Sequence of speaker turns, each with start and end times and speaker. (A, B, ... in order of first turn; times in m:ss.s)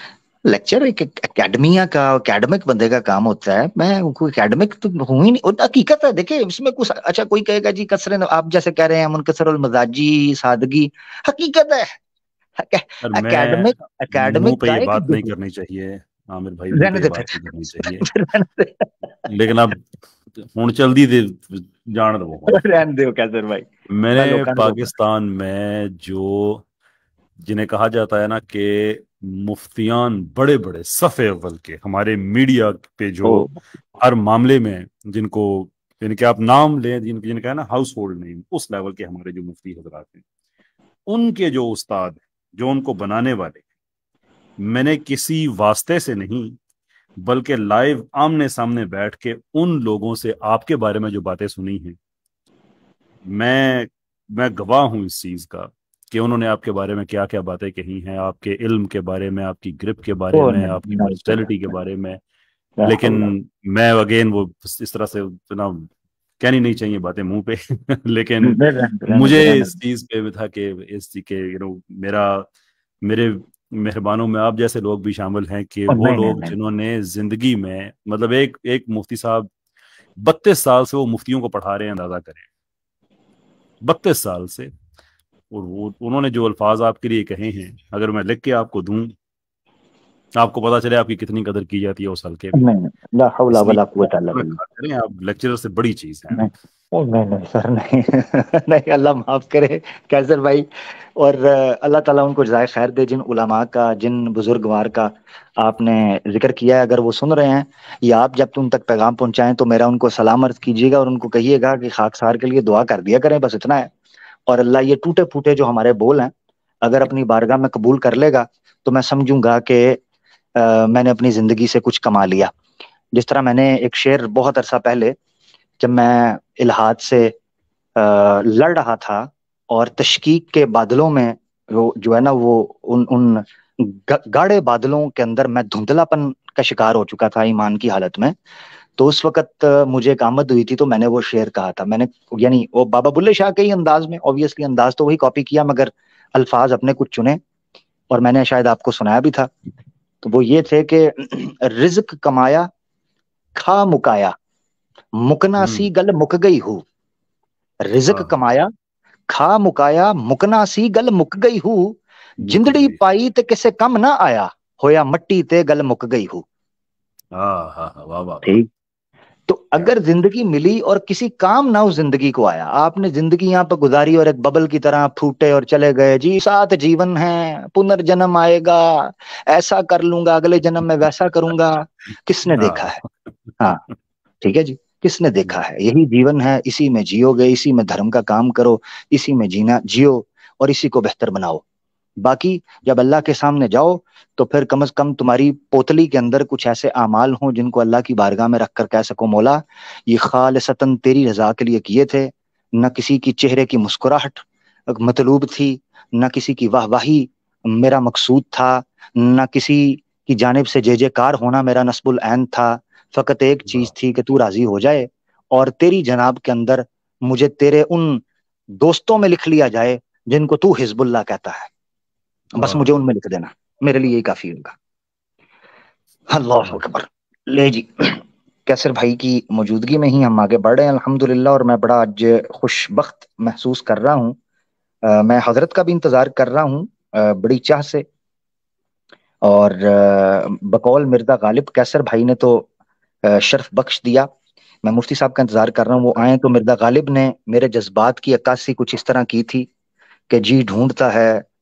0:00.5-0:12.0 A
0:12.6-0:15.3 A
0:13.0-0:18.1 B
0:16.7-0:19.1 A
0:19.3-0:22.6 B
0:22.5-0:24.9 A
0:23.9-0:26.6 B
0:27.4-0:40.2 B
0:33.2-0:33.5 A
0:41.1-0:43.6 B
0:44.6-0:46.6 B
0:47.2-0:52.0 B
0:53.2-1:02.2 B
1:00.3-1:01.6 A
1:02.8-1:03.3 A
1:02.8-1:05.9 B
1:06.4-1:12.5 B
1:08.4-1:09.7 A
1:13.0-1:19.5 B
1:15.9-1:16.6 A
1:20.2-1:22.5 B
1:23.8-1:24.7 B
1:25.5-1:29.2 B
1:30.4-1:32.6 B
1:32.5-1:34.6 A
1:33.5-1:36.5 B
1:36.3-1:53.9 A
1:54.5-2:00.0 A
2:00.6-2:02.5 A
2:03.1-2:05.2 A
2:05.8-2:07.3 A
2:08.0-2:18.4 A
2:19.0-2:27.4 A
2:28.1-2:29.5 A
2:30.2-2:32.7 A
2:33.6-2:34.4 A
2:35.2-2:36.8 A
2:35.6-2:35.9 B
2:37.9-2:38.7 A
2:39.3-2:46.4 A
2:42.4-2:43.0 B
2:47.3-2:48.6 B
2:49.5-3:03.0 A
3:02.5-3:03.9 B
3:04.4-3:11.6 A
3:12.2-3:38.2 A
3:33.7-3:33.9 B
3:38.8-3:41.7 A
3:42.5-3:42.9 B
3:42.6-3:44.8 A
3:46.3-3:54.4 A
3:55.0-3:58.1 A
3:59.4-4:02.7 A
4:03.2-4:04.3 A
4:04.8-4:09.7 A
4:10.3-4:11.4 A